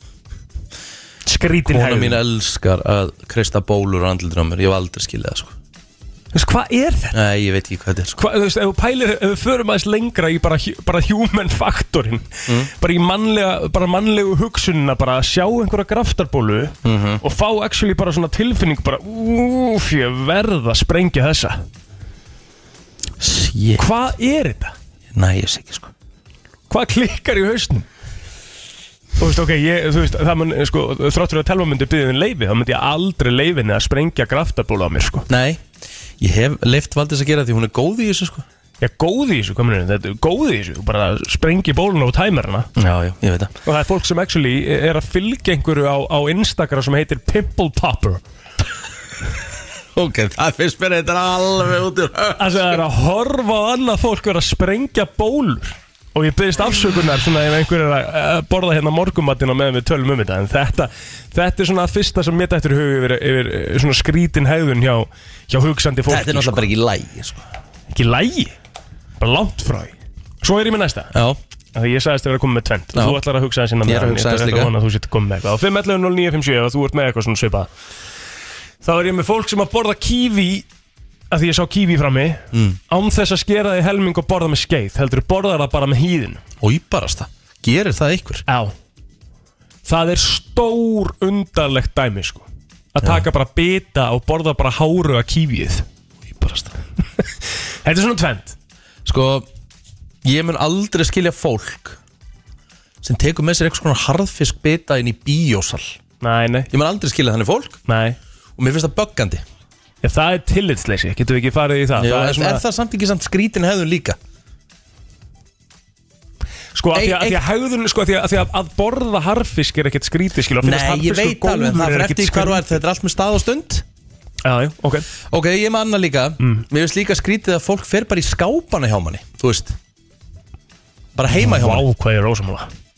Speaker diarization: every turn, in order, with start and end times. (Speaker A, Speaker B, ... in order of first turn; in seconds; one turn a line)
Speaker A: 1.2-2.2
Speaker B: 1.6-5.5
Speaker A: 6.3-7.2
Speaker B: 7.1-8.2
Speaker A: 8.2-21.6
Speaker B: 16.8-17.2
Speaker B: 23.2-23.9
Speaker A: 23.8-24.7
Speaker B: 25.1-25.9
Speaker A: 26.7-27.9
Speaker A: 29.2-35.3
Speaker B: 35.3-35.6
Speaker B: 36.2-38.4
Speaker A: 38.8-42.7
Speaker B: 42.8-43.5
Speaker A: 43.6-48.2
Speaker B: 49.9-52.6
Speaker A: 52.4-66.7
Speaker B: 66.1-67.5
Speaker A: 67.9-68.5
Speaker A: 69.2-71.1
Speaker B: 71.1-71.4
Speaker A: 71.7-77.7
Speaker B: 72.9-73.2
Speaker B: 73.8-74.7
Speaker A: 78.8-80.7
Speaker A: 81.3-86.4
Speaker B: 82.5-82.8
Speaker B: 86.6-88.4
Speaker A: 88.5-88.7
Speaker A: 89.8-95.8
Speaker B: 96.3-96.8
Speaker A: 97.8-98.5
Speaker B: 99.0-99.5
Speaker B: 100.2-102.0
Speaker B: 103.0-106.0
Speaker A: 106.2-106.7
Speaker B: 106.7-107.8
Speaker A: 107.9-108.2
Speaker B: 108.6-109.4
Speaker A: 110.0-112.6
Speaker B: 111.9-114.2
Speaker A: 116.7-122.8
Speaker B: 116.9-117.4
Speaker B: 120.6-123.8
Speaker A: 124.4-125.1
Speaker B: 125.3-129.8
Speaker A: 126.4-126.6
Speaker B: 131.1-131.8
Speaker A: 131.3-132.7